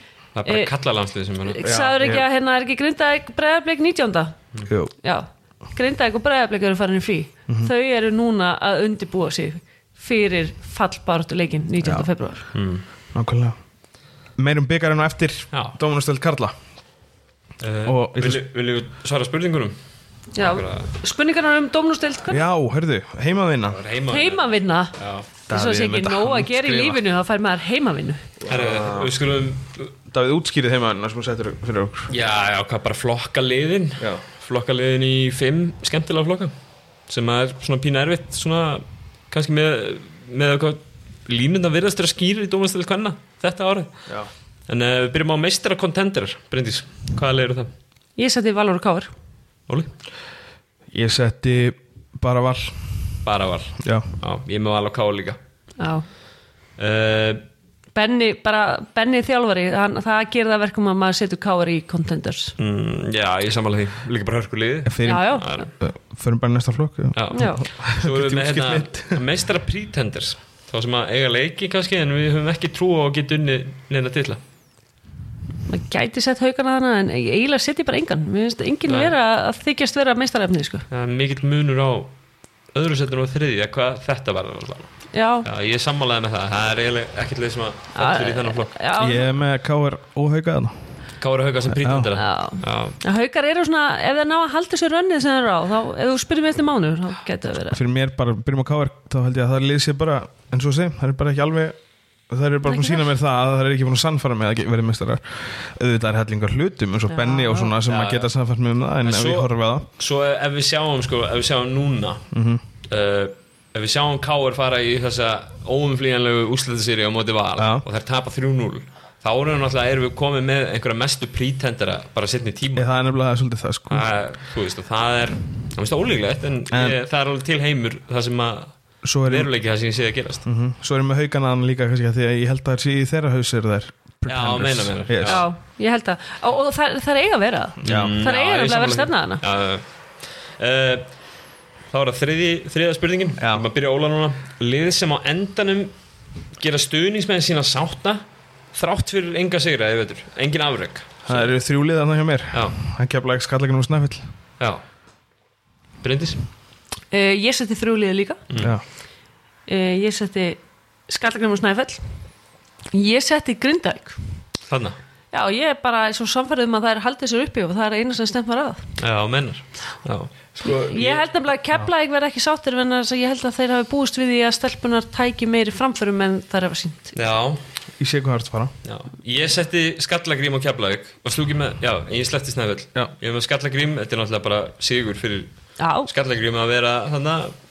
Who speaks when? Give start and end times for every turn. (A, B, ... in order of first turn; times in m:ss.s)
0:00.3-0:01.7 A
0:00.4-0:00.7 B
0:01.4-0:04.4 B
0:01.6-0:02.2 C
0:04.6-0:04.9 C
0:05.0-0:12.5 B
0:12.5-0:12.8 A
0:13.1-0:13.6 C
0:14.4-0:16.5 C
0:17.6-0:19.8 A
0:17.8-0:18.4 C
0:20.3-0:22.5 B
0:20.4-0:20.9 A
0:22.3-0:23.8 C
0:23.7-0:25.3 A
0:24.1-0:25.0 B
0:25.5-0:28.2 B
0:25.5-0:27.0 C
0:28.4-0:29.1 C
0:28.5-0:29.9 A
0:30.1-0:32.1 C
0:32.1-0:36.5 A
0:37.1-0:44.0 A
0:44.7-0:47.7 A
0:48.2-0:49.1 B
0:50.9-0:53.2 C
0:53.2-0:55.4 A
0:53.8-0:54.1 C
0:55.8-0:56.0 B
0:56.8-0:57.4 A
0:57.9-1:02.5 B
1:02.6-1:05.7 A
1:04.8-1:09.2 C
1:05.0-1:05.6 B
1:07.1-1:14.4 A
1:07.3-1:07.6 B
1:15.7-1:20.8 B
1:18.9-1:19.1 A
1:20.9-1:22.1 A
1:22.7-1:24.9 A
1:25.1-1:25.5 B
1:25.4-1:28.8 A
1:27.9-1:29.3 B
1:29.0-1:30.8 C
1:31.2-1:33.0 A
1:31.7-1:32.1 C
1:32.1-1:37.8 B
1:37.7-1:41.8 C
1:42.3-1:49.8 C
1:42.7-1:43.0 B
1:47.1-1:47.7 B
1:47.8-1:48.3 A
1:49.0-1:52.2 A
1:52.3-1:52.6 C
1:52.9-2:02.9 A
1:57.6-1:57.8 C
2:02.8-2:04.1 C
2:03.9-2:10.4 A
2:06.7-2:07.0 C
2:09.0-2:09.5 C
2:10.4-2:15.4 C
2:14.3-2:15.4 A
2:15.2-2:19.4 B
2:17.8-2:18.2 C
2:17.8-2:19.8 A
2:20.4-2:21.1 A
2:21.9-2:25.9 A
2:23.4-2:23.6 C
2:26.6-2:28.2 A
2:28.7-2:31.5 A
2:31.3-2:34.3 C
2:36.0-2:36.4 A
2:37.1-2:38.4 B
2:38.5-2:38.8 A
2:38.6-2:38.8 C
2:39.7-2:42.0 B
2:42.9-2:44.2 B
2:44.7-2:45.0 A
2:45.3-2:48.9 B
2:49.0-2:51.2 A
2:50.6-2:57.2 B
2:57.2-2:57.6 A
2:58.0-2:58.7 C
2:58.8-3:05.5 A
3:05.8-3:06.1 B
3:06.0-3:07.5 A